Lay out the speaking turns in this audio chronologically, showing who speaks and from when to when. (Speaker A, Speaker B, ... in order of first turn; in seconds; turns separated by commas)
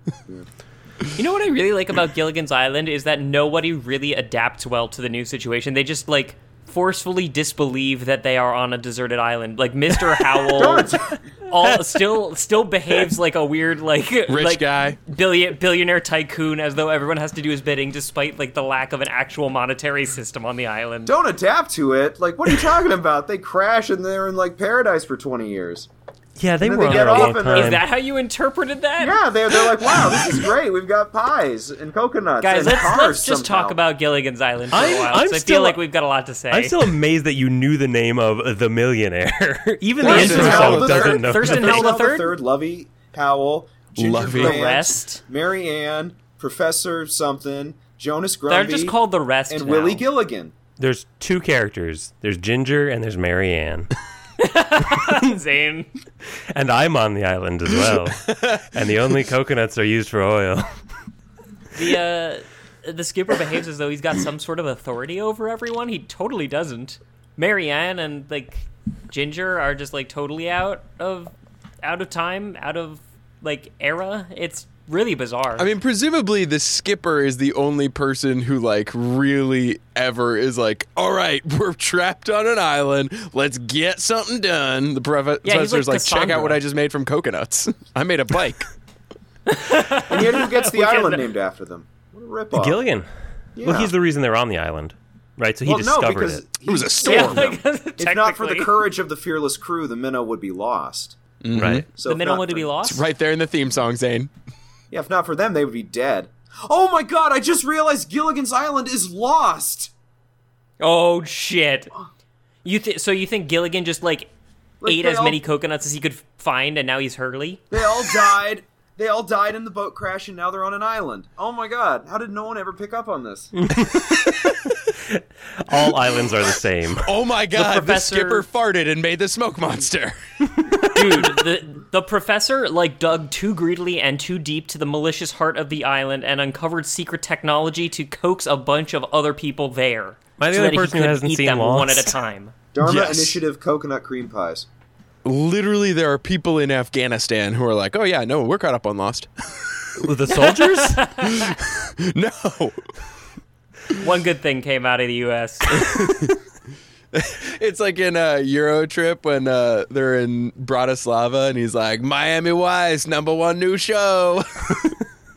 Speaker A: 1.1-21.1, Speaker B: 10.6-11.2, Speaker C: 14.3-15.0, Speaker B: 21.1-25.9, Speaker D: 26.4-27.8, Speaker B: 26.6-27.8, Speaker A: 26.9-30.0, Speaker B: 29.0-33.8, Speaker A: 32.4-36.9, Speaker D: 34.7-35.8, Speaker D: 36.5-41.9, Speaker B: 40.0-49.0, Speaker A: 40.0-42.4, Speaker C: 40.0-40.9, Speaker C: 44.0-44.6, Speaker A: 44.2-45.2, Speaker A: 48.5-50.0, Speaker B: 49.5-50.5, Speaker D: 50.8-53.9, Speaker A: 54.4-55.9, Speaker D: 56.5-60.7, Speaker C: 57.9-58.5, Speaker A: 61.7-75.7, Speaker C: 75.6-88.7, Speaker A: 85.4-86.6, Speaker A: 89.5-91.3, Speaker B: 90.1-92.8, Speaker D: 92.5-93.1, Speaker B: 93.6-93.9, Speaker D: 93.6-96.4, Speaker B: 95.7-101.2, Speaker C: 96.7-97.5, Speaker A: 97.0-98.8, Speaker C: 101.4-101.9, Speaker D: 101.5-101.8, Speaker B: 102.0-102.7, Speaker A: 102.0-103.1, Speaker C: 102.8-104.3, Speaker B: 104.9-109.9, Speaker A: 110.8-111.9, Speaker A: 112.6-114.3, Speaker B: 114.8-115.4, Speaker A: 114.8-117.6, Speaker B: 117.7-123.5, Speaker D: 123.6-124.5, Speaker D: 125.1-127.1, Speaker C: 127.0-131.2, Speaker A: 127.5-128.4, Speaker A: 130.9-142.5, Speaker D: 140.4-142.1, Speaker B: 142.7-144.7, Speaker C: 142.8-143.4, Speaker C: 145.2-150.1, Speaker D: 150.0-151.0, Speaker A: 150.3-151.6, Speaker C: 151.2-152.8, Speaker A: 153.9-156.2, Speaker C: 155.8-156.3, Speaker C: 157.1-164.9